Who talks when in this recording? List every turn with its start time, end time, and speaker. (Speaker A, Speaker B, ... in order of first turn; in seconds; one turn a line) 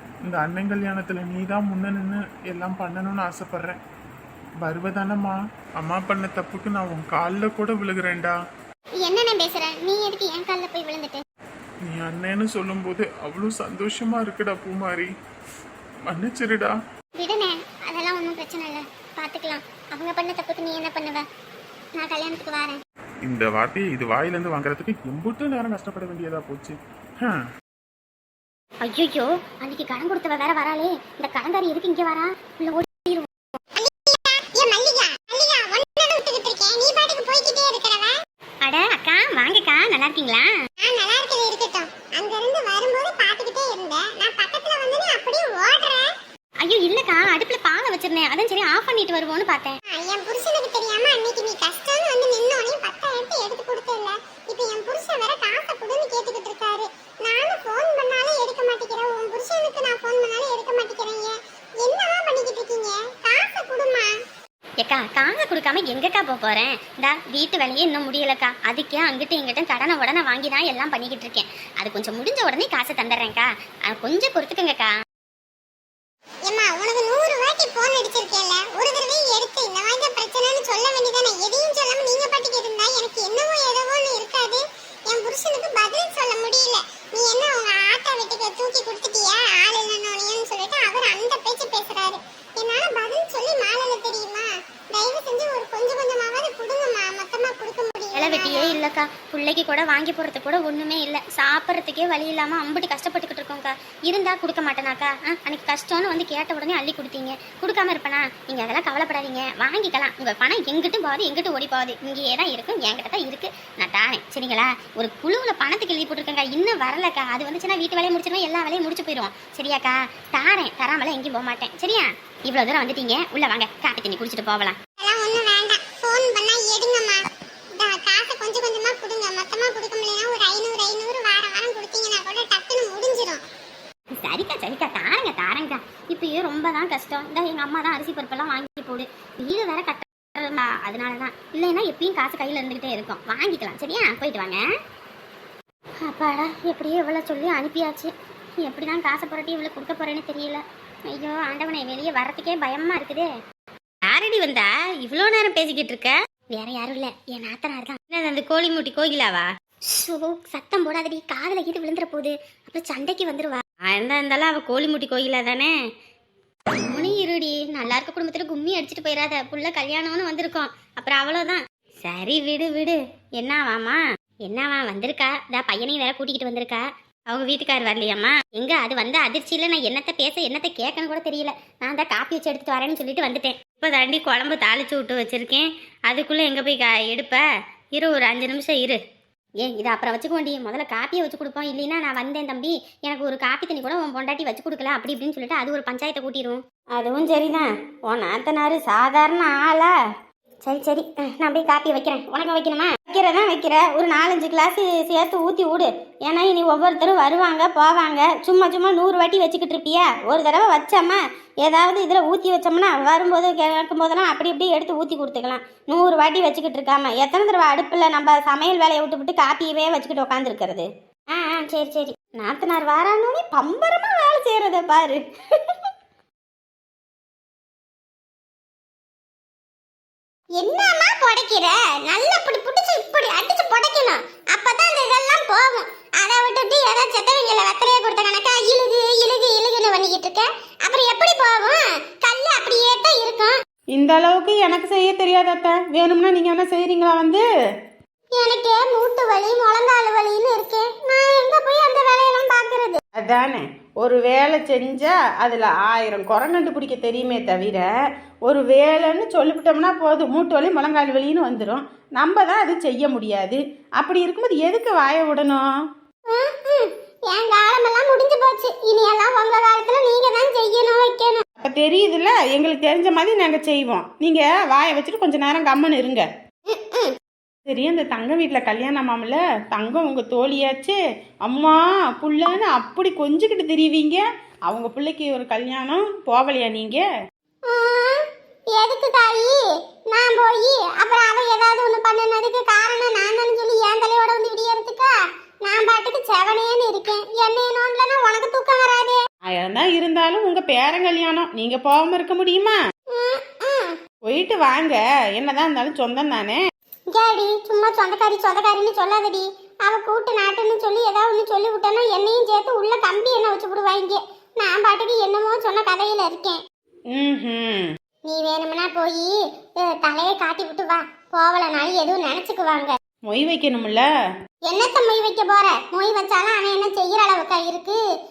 Speaker A: 0.2-3.8
Speaker A: 4.6-8.3
Speaker B: 9.0-11.2
Speaker A: 11.9-15.1
Speaker A: 16.1-16.7
Speaker B: 17.2-21.2
Speaker B: 22.0-22.8
Speaker A: 23.2-27.4
Speaker C: 28.8-33.3
Speaker B: 33.7-38.1
Speaker C: 38.6-40.5
Speaker B: 40.8-46.1
Speaker C: 46.6-49.8
Speaker B: 49.9-64.1
Speaker C: 64.8-74.9
Speaker B: 76.5-98.8
Speaker C: 98.1-124.8
Speaker B: 125.0-133.4
Speaker C: 134.2-144.6
Speaker C: 146.0-153.3
Speaker C: 154.1-165.7
Speaker C: 166.7-187.4
Speaker C: 187.9-189.0
Speaker C: 189.6-199.9
Speaker C: 200.6-225.9
Speaker B: 230.6-243.6
Speaker D: 243.9-247.4
Speaker B: 248.4-253.0
Speaker D: 253.2-257.9
Speaker D: 258.5-265.6
Speaker B: 266.3-271.4
Speaker D: 271.6-276.3
Speaker B: 276.7-277.1
Speaker D: 277.7-287.1
Speaker B: 287.7-289.6
Speaker B: 290.1-295.1
Speaker B: 295.6-299.2
Speaker D: 299.5-302.8
Speaker B: 303.1-303.9
Speaker D: 304.2-306.6
Speaker B: 307.1-316.6
Speaker D: 317.1-317.9
Speaker B: 318.3-322.9
Speaker D: 323.3-324.1
Speaker B: 324.6-328.0